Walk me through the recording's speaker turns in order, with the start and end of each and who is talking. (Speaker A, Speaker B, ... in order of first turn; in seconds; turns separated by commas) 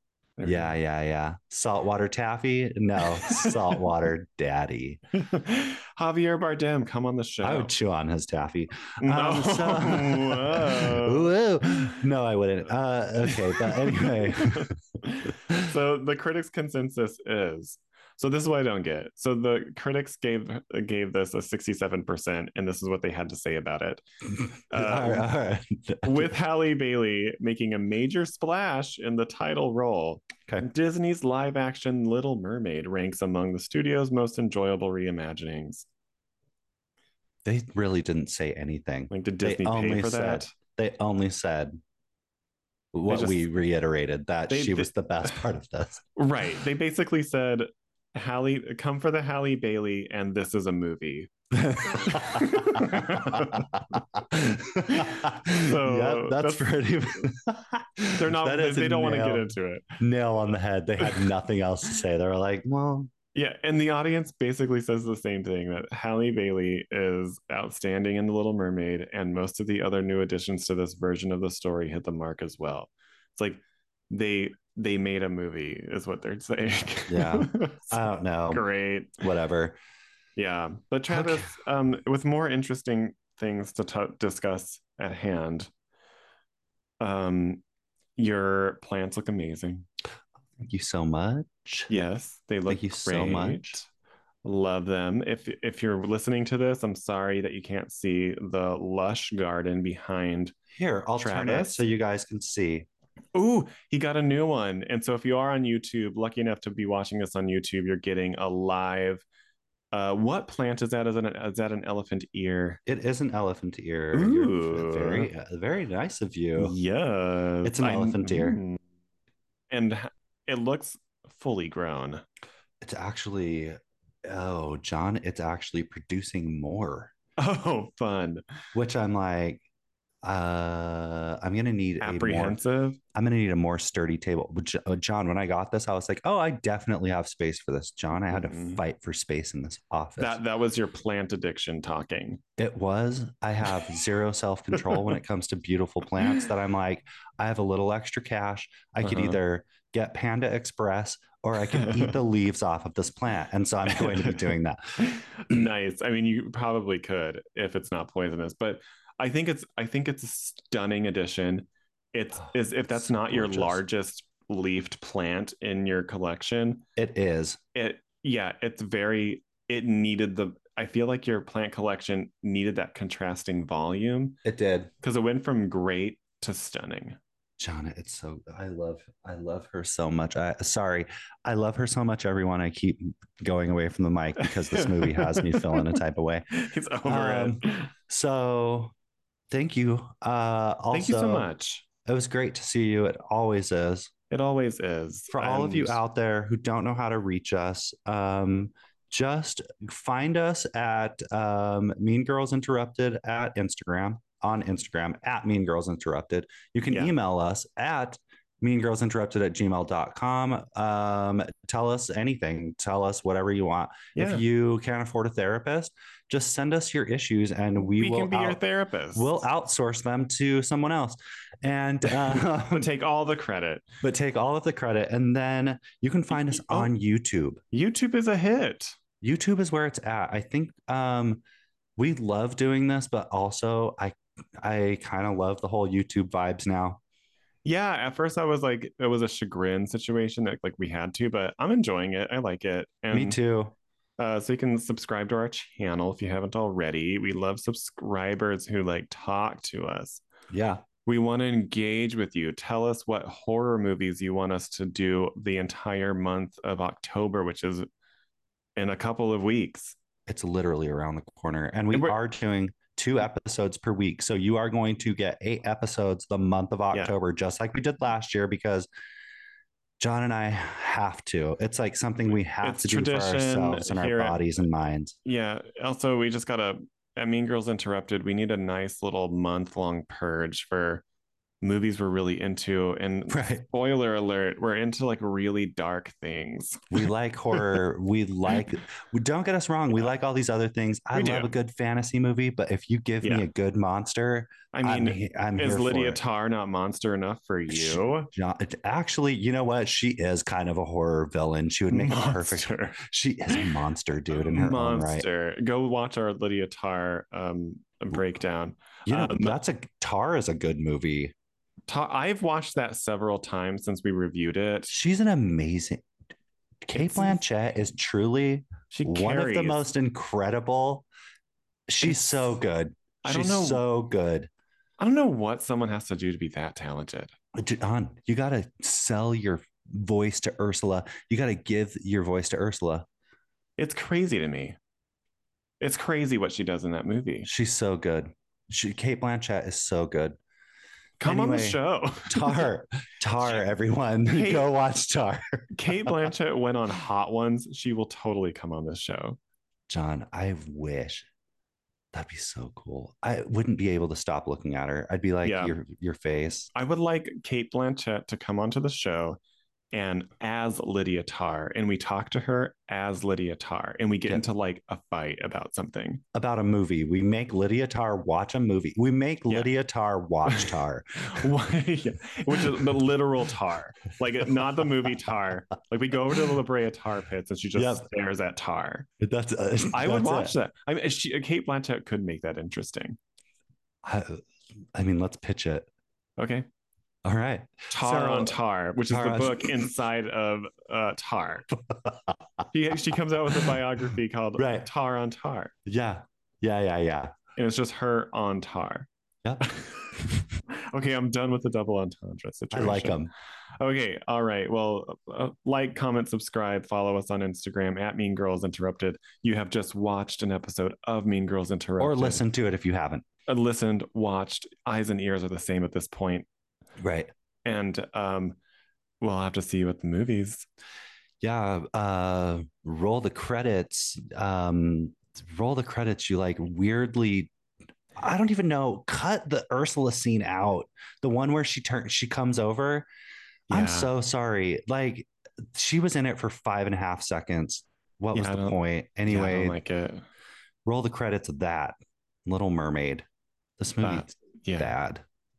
Speaker A: 0.4-0.7, Speaker B: 0.4-5.0, Speaker A: 3.1-3.8, Speaker A: 5.2-7.7, Speaker B: 7.4-14.8, Speaker A: 9.0-11.3, Speaker A: 13.2-24.0, Speaker B: 15.3-15.6, Speaker A: 24.7-25.3, Speaker B: 24.7-26.3, Speaker A: 26.0-35.9, Speaker B: 37.4-41.8, Speaker A: 39.1-40.5, Speaker B: 42.9-46.0, Speaker A: 43.1-43.5, Speaker A: 44.5-44.9, Speaker A: 46.2-53.7, Speaker B: 51.5-63.1, Speaker A: 54.9-57.3, Speaker A: 58.2-60.0, Speaker A: 63.4-78.0, Speaker B: 77.1-78.7, Speaker A: 78.5-79.2, Speaker B: 79.2-79.8, Speaker A: 80.4-85.7, Speaker B: 81.1-81.5, Speaker A: 87.0-87.6, Speaker A: 88.2-89.9, Speaker B: 90.6-91.9, Speaker A: 91.9-93.9, Speaker B: 92.7-93.8, Speaker A: 94.4-100.5, Speaker B: 100.7-102.9, Speaker A: 101.2-101.8, Speaker A: 103.3-109.2, Speaker A: 109.9-112.8, Speaker B: 112.9-116.8, Speaker A: 114.1-115.3, Speaker A: 116.6-118.8, Speaker B: 117.6-118.6, Speaker A: 119.7-122.2, Speaker B: 122.8-127.1, Speaker A: 127.4-128.4, Speaker B: 128.8-129.6, Speaker B: 130.2-132.6, Speaker A: 132.0-133.0, Speaker B: 133.1-140.4, Speaker A: 138.3-138.8, Speaker A: 140.2-142.4, Speaker B: 142.6-155.0, Speaker A: 144.8-145.1, Speaker A: 149.0-149.4, Speaker A: 151.7-152.1, Speaker A: 153.9-166.8, Speaker B: 162.9-163.8, Speaker B: 167.0-167.6, Speaker A: 167.8-174.4, Speaker B: 174.4-174.9, Speaker A: 175.0-177.2, Speaker B: 177.6-186.5, Speaker A: 184.4-186.0, Speaker A: 186.5-187.9, Speaker B: 187.1-188.9, Speaker B: 189.5-191.5, Speaker A: 190.9-191.8, Speaker B: 192.1-194.1, Speaker A: 194.3-196.0, Speaker B: 195.3-218.6, Speaker A: 214.2-214.4, Speaker A: 217.8-219.4, Speaker B: 219.1-222.9, Speaker A: 222.1-223.9, Speaker B: 224.0-227.6, Speaker A: 226.3-226.9, Speaker A: 227.7-229.0, Speaker B: 229.2-231.4, Speaker B: 232.0-237.0, Speaker A: 237.7-243.4, Speaker B: 243.1-243.7, Speaker A: 244.2-250.2, Speaker B: 250.5-250.8, Speaker A: 251.1-257.9, Speaker A: 258.8-260.0, Speaker B: 260.3-268.9, Speaker B: 270.0-275.1, Speaker A: 272.6-274.5, Speaker A: 275.2-281.0, Speaker A: 281.6-287.0, Speaker B: 283.3-283.6, Speaker B: 286.9-296.2, Speaker A: 291.1-291.5, Speaker A: 294.7-298.3, Speaker B: 297.7-305.3, Speaker A: 301.9-303.0, Speaker A: 304.3-309.6, Speaker B: 309.1-311.3, Speaker A: 311.9-314.9, Speaker B: 314.9-316.1, Speaker B: 316.9-321.1, Speaker A: 316.9-317.4, Speaker A: 318.9-319.8, Speaker B: 321.9-324.5, Speaker A: 323.2-323.8, Speaker A: 325.0-327.3, Speaker B: 327.6-333.1, Speaker A: 333.8-334.8, Speaker A: 335.8-337.5, Speaker B: 337.4-340.4, Speaker A: 341.2-342.7, Speaker B: 341.2-345.7, Speaker A: 343.4-343.7, Speaker A: 344.3-344.7, Speaker A: 345.7-349.4, Speaker B: 349.9-351.3, Speaker B: 352.1-356.7, Speaker A: 355.4-355.8, Speaker A: 356.7-359.4, Speaker A: 359.9-366.2, Speaker B: 366.3-371.4, Speaker A: 370.5-379.1, Speaker B: 377.8-378.1, Speaker B: 379.2-380.5, Speaker A: 379.9-383.2, Speaker B: 384.0-384.4, Speaker B: 384.9-385.9, Speaker A: 386.4-386.7, Speaker B: 387.2-388.6, Speaker A: 387.9-391.7, Speaker B: 389.1-389.8, Speaker B: 391.9-392.2, Speaker A: 392.7-395.7, Speaker B: 394.6-394.9, Speaker B: 395.9-397.3, Speaker A: 397.6-399.1, Speaker B: 399.4-399.7, Speaker A: 399.6-400.2, Speaker A: 400.7-403.3, Speaker B: 402.7-403.3, Speaker A: 403.8-412.5, Speaker B: 412.0-413.2, Speaker A: 413.5-416.5, Speaker B: 417.0-417.3, Speaker A: 417.6-418.6, Speaker A: 419.2-420.7, Speaker B: 421.4-427.5, Speaker B: 428.2-433.1, Speaker A: 433.7-434.1, Speaker B: 433.7-439.8, Speaker A: 438.3-440.3, Speaker B: 440.9-443.3, Speaker B: 443.8-445.2, Speaker A: 444.0-444.9